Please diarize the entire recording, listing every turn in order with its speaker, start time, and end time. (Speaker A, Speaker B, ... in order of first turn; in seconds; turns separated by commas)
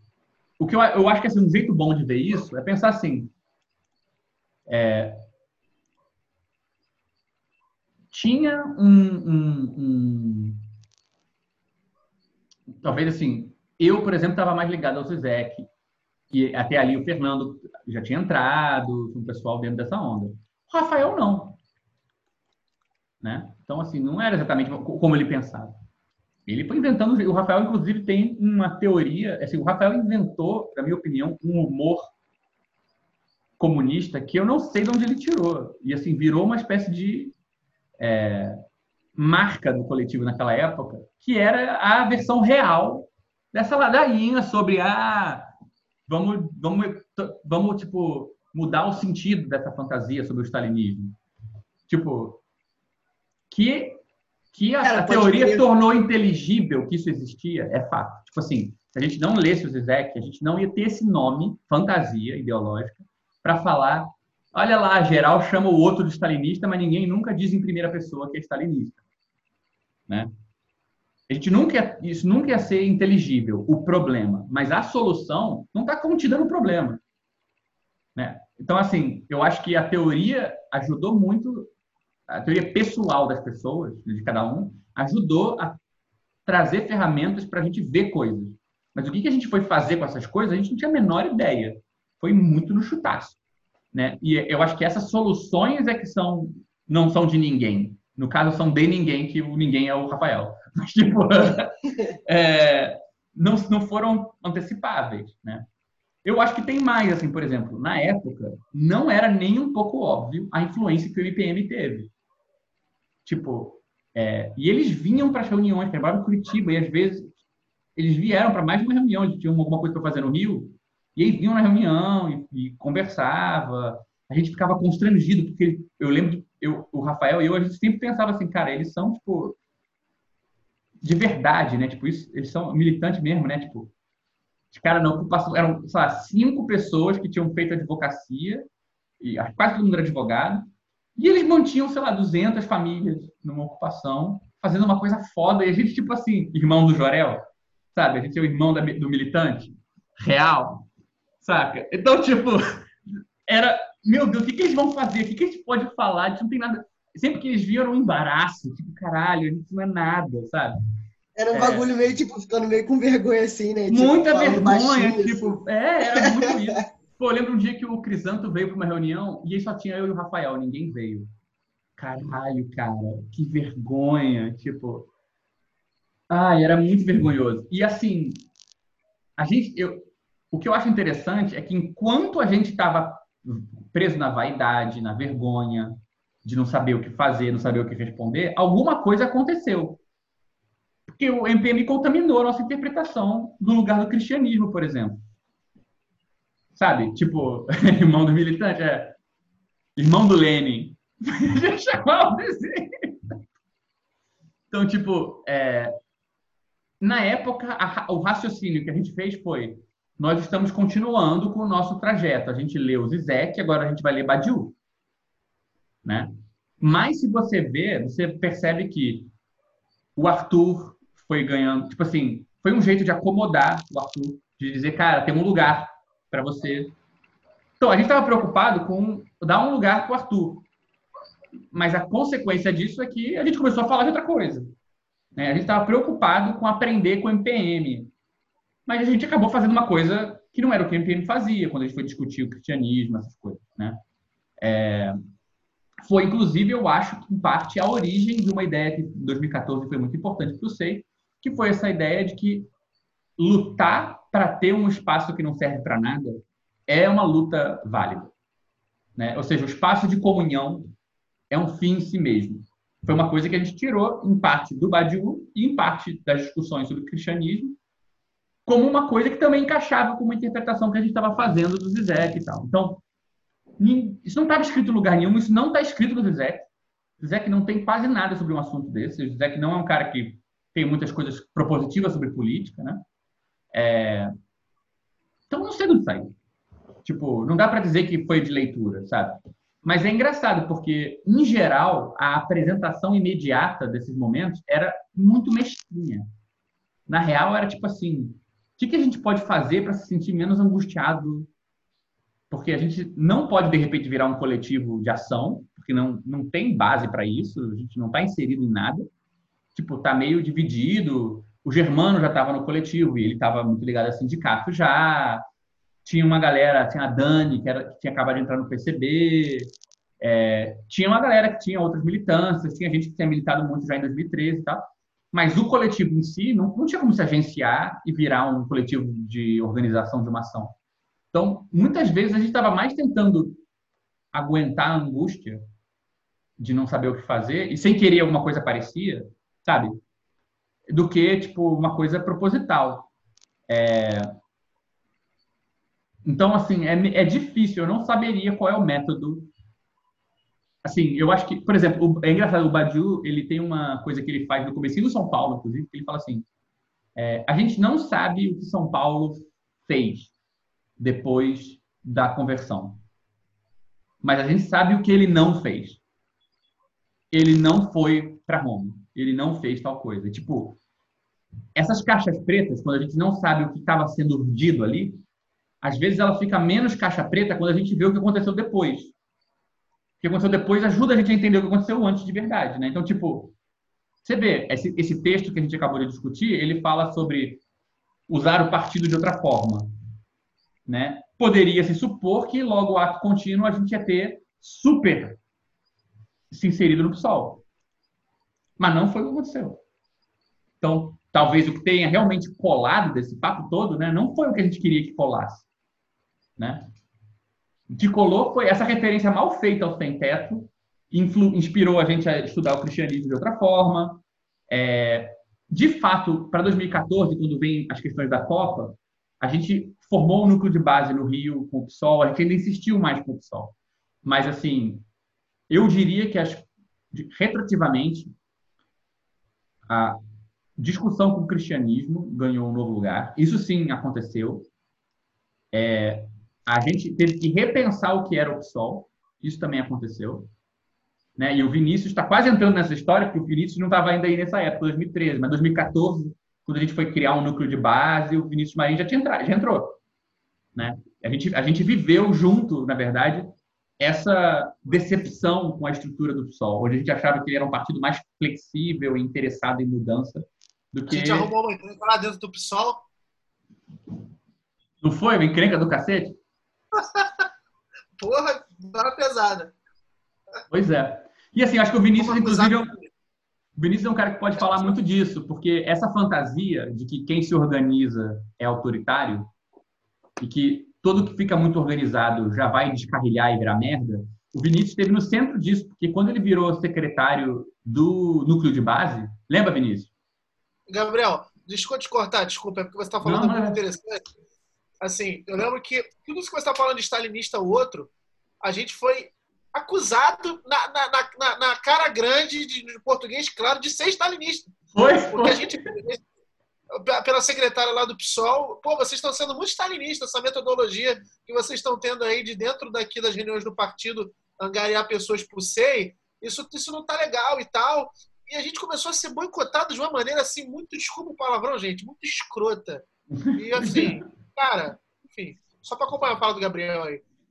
Speaker A: 0.6-3.3, Speaker A: 4.7-5.2, Speaker A: 8.1-10.6, Speaker A: 12.8-15.7, Speaker A: 16.3-21.6, Speaker A: 23.2-25.7, Speaker A: 26.5-32.1, Speaker A: 33.6-37.3, Speaker A: 38.0-38.6, Speaker A: 39.1-45.5, Speaker A: 46.1-51.1, Speaker A: 51.9-52.4, Speaker A: 53.5-54.0, Speaker A: 54.5-69.0, Speaker B: 54.8-55.6, Speaker A: 71.3-77.0, Speaker A: 78.2-81.7, Speaker A: 82.3-85.8, Speaker A: 86.5-93.4, Speaker A: 93.9-105.6, Speaker A: 106.2-112.1, Speaker A: 113.2-117.3, Speaker A: 118.0-129.6, Speaker A: 131.0-133.9, Speaker A: 134.7-138.6, Speaker A: 139.2-150.8, Speaker A: 151.4-152.8, Speaker A: 153.5-160.8, Speaker B: 161.3-165.6, Speaker A: 161.5-161.9, Speaker A: 163.9-171.3, Speaker B: 166.1-166.5, Speaker A: 172.0-175.1, Speaker A: 176.3-178.4, Speaker A: 179.4-190.0, Speaker A: 191.1-195.2, Speaker A: 196.8-199.2, Speaker A: 199.9-203.2, Speaker A: 204.7-205.9, Speaker A: 207.0-214.7, Speaker A: 216.0-219.3, Speaker A: 220.2-226.9, Speaker A: 227.8-230.6, Speaker A: 231.7-234.7, Speaker A: 235.3-238.1, Speaker A: 238.9-244.0, Speaker A: 244.6-245.2, Speaker A: 246.0-252.7, Speaker A: 253.4-258.3, Speaker A: 259.1-260.9, Speaker A: 261.5-267.8, Speaker A: 268.7-273.0, Speaker A: 273.8-276.7, Speaker A: 277.2-283.0, Speaker A: 283.7-284.3, Speaker A: 285.5-286.3, Speaker A: 287.0-296.2, Speaker A: 297.1-301.5, Speaker A: 302.5-309.1, Speaker A: 309.7-315.4, Speaker A: 316.0-330.7, Speaker A: 331.3-333.6, Speaker A: 334.3-335.6, Speaker A: 336.6-340.0, Speaker A: 340.9-343.1, Speaker A: 343.7-344.3, Speaker A: 346.2-349.5, Speaker A: 350.8-356.4, Speaker A: 357.1-360.3, Speaker A: 361.0-363.0, Speaker A: 364.2-366.0, Speaker A: 367.3-370.8, Speaker A: 371.8-375.2, Speaker A: 375.8-379.1, Speaker A: 380.2-383.5, Speaker A: 384.2-387.6, Speaker A: 388.3-389.9, Speaker A: 390.9-395.4, Speaker A: 396.5-397.6, Speaker A: 398.8-399.8, Speaker A: 400.8-405.6, Speaker A: 406.6-406.8, Speaker A: 407.9-423.7, Speaker A: 424.2-425.0, Speaker A: 425.7-428.3, Speaker A: 429.9-430.2, Speaker A: 430.8-434.7, Speaker A: 435.7-440.5, Speaker A: 441.4-450.0, Speaker A: 450.7-453.5, Speaker A: 454.0-461.5, Speaker C: 461.1-463.0, Speaker A: 465.0-466.4, Speaker C: 466.9-467.4, Speaker C: 468.2-469.7, Speaker A: 470.7-472.9, Speaker C: 472.2-473.0, Speaker A: 473.8-479.5, Speaker A: 480.4-490.1, Speaker C: 490.9-494.2, Speaker A: 493.2-493.8, Speaker C: 495.0-504.7, Speaker A: 504.9-505.8, Speaker C: 505.2-506.2, Speaker C: 506.9-523.0, Speaker A: 523.3-524.2, Speaker C: 523.5-527.2